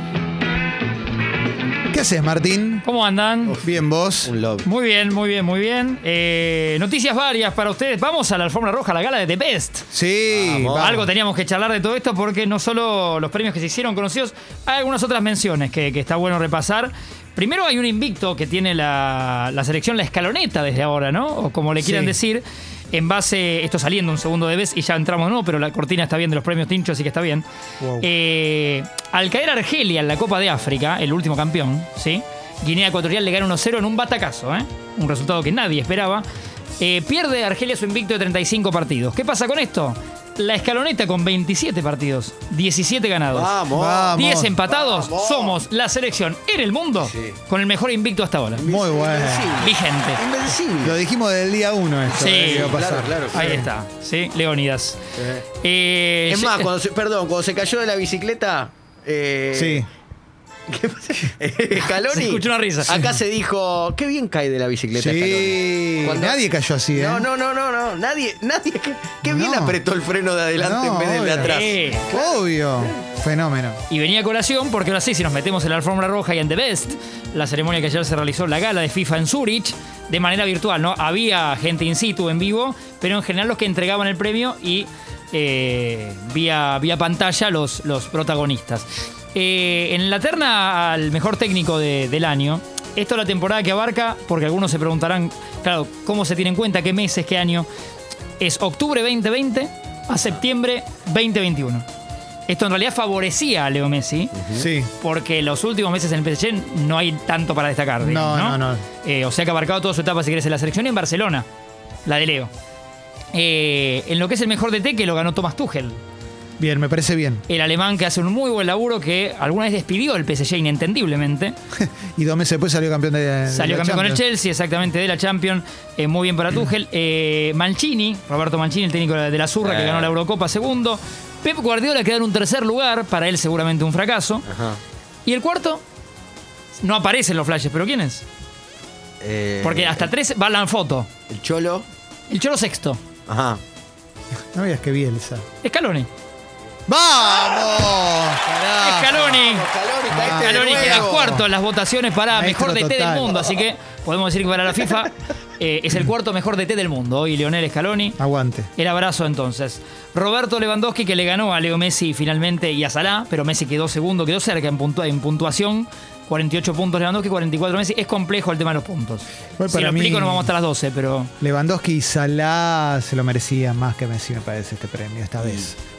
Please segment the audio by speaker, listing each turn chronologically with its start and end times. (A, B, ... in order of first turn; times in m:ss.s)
0:01.9-0:02.8 A
0:02.8-0:03.6 B
0:03.6-0:04.3 A
0:04.2-0:04.7 C
0:04.6-0:09.9 B
0:09.9-0:11.1 A
0:10.3-0:11.0 C
0:10.7-0:27.4 B
0:21.8-0:22.1 A
0:27.8-0:28.1 A
0:28.0-0:36.2 B
0:36.8-0:43.5 B
0:43.3-0:45.6 C
0:43.7-0:44.6 A
0:44.1-0:48.6 B
0:47.1-0:47.4 C
0:48.6-0:51.0 C
0:48.6-0:49.6 A
0:49.6-0:50.2 B
0:50.8-0:53.7 A
0:52.1-0:52.8 B
0:52.2-0:53.6 C
0:53.3-0:55.0 B
0:55.2-0:55.4 C
0:55.6-0:56.7 B
0:56.3-0:59.8 C
0:59.5-0:59.9 A
1:00.7-1:06.4 C
1:02.0-1:03.0 B
1:02.9-1:03.2 A
1:04.9-1:07.3 A
1:06.9-1:12.4 C
1:09.2-1:09.8 A
1:10.6-1:13.8 A
1:11.4-1:12.1 B
1:13.9-1:37.7 B
1:38.4-1:41.9 B
1:42.5-1:51.4 B
1:44.5-1:44.9 A
1:48.0-1:48.8 A
1:52.1-1:52.5 B
1:53.3-1:56.0 B
1:56.6-1:57.4 A
1:57.5-2:01.6 B
2:01.8-2:04.2 A
2:03.5-2:14.5 B
2:09.6-2:10.2 C
2:14.5-2:14.8 C
2:15.2-2:15.8 B
2:16.8-2:18.2 B
2:19.2-2:20.1 C
2:19.6-2:21.1 B
2:21.3-2:21.8 C
2:22.3-2:23.0 B
2:23.3-2:23.6 C
2:24.5-2:25.4 A
2:25.6-2:26.1 B
2:26.9-2:29.4 A
2:28.8-2:38.2 B
2:29.2-2:31.4 C
2:30.1-2:31.5 A
2:32.3-2:33.5 A
2:38.2-2:38.7 A
2:38.8-2:51.3 B
2:49.6-2:50.5 A
2:51.4-2:55.8 A
2:55.4-2:55.7 C